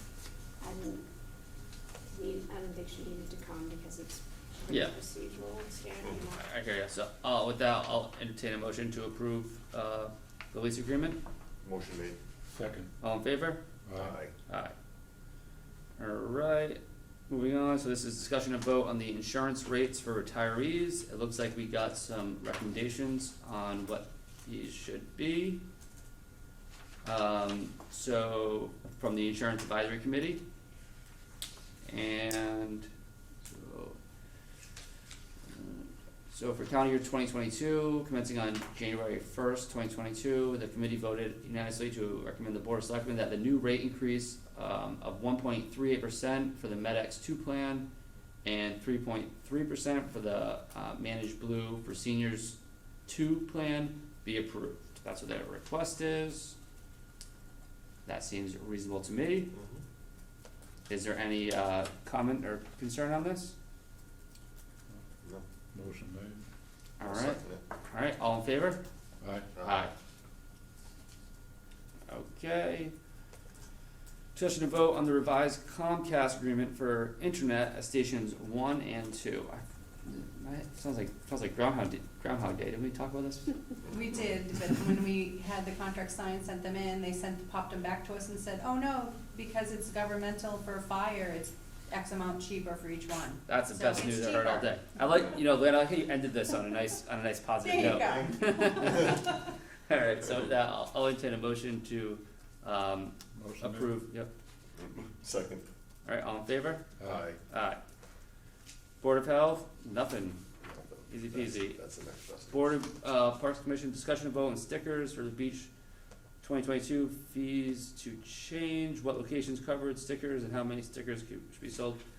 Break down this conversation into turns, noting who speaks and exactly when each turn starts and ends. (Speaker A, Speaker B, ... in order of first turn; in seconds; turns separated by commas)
Speaker A: 0.6-1.1, Speaker A: 2.1-6.4, Speaker B: 4.7-5.0, Speaker B: 6.3-11.2, Speaker C: 11.6-12.2, Speaker D: 12.5-12.9, Speaker B: 13.0-13.6, Speaker D: 13.8-14.2, Speaker C: 14.0-14.3, Speaker B: 14.5-14.7, Speaker B: 16.0-25.6, Speaker B: 27.0-30.4, Speaker B: 31.9-32.9, Speaker B: 33.5-34.0, Speaker B: 35.5-47.9, Speaker B: 48.4-56.5, Speaker B: 58.0-59.5, Speaker C: 59.5-59.8, Speaker B: 60.9-63.5, Speaker D: 65.7-66.4, Speaker B: 67.0-68.8, Speaker C: 67.0-67.6, Speaker D: 69.2-69.5, Speaker C: 69.5-69.9, Speaker B: 69.6-69.9, Speaker B: 72.1-72.9, Speaker B: 74.3-83.5, Speaker E: 83.9-94.8, Speaker B: 93.5-104.3, Speaker E: 97.6-99.4, Speaker C: 97.9-98.9, Speaker D: 103.3-103.9, Speaker C: 104.7-105.7, Speaker B: 106.0-106.9, Speaker D: 107.0-107.2, Speaker C: 107.0-107.4, Speaker B: 107.5-107.8, Speaker B: 109.0-110.4, Speaker C: 110.6-112.7, Speaker B: 111.1-111.8, Speaker B: 112.5-115.7, Speaker B: 116.4-122.0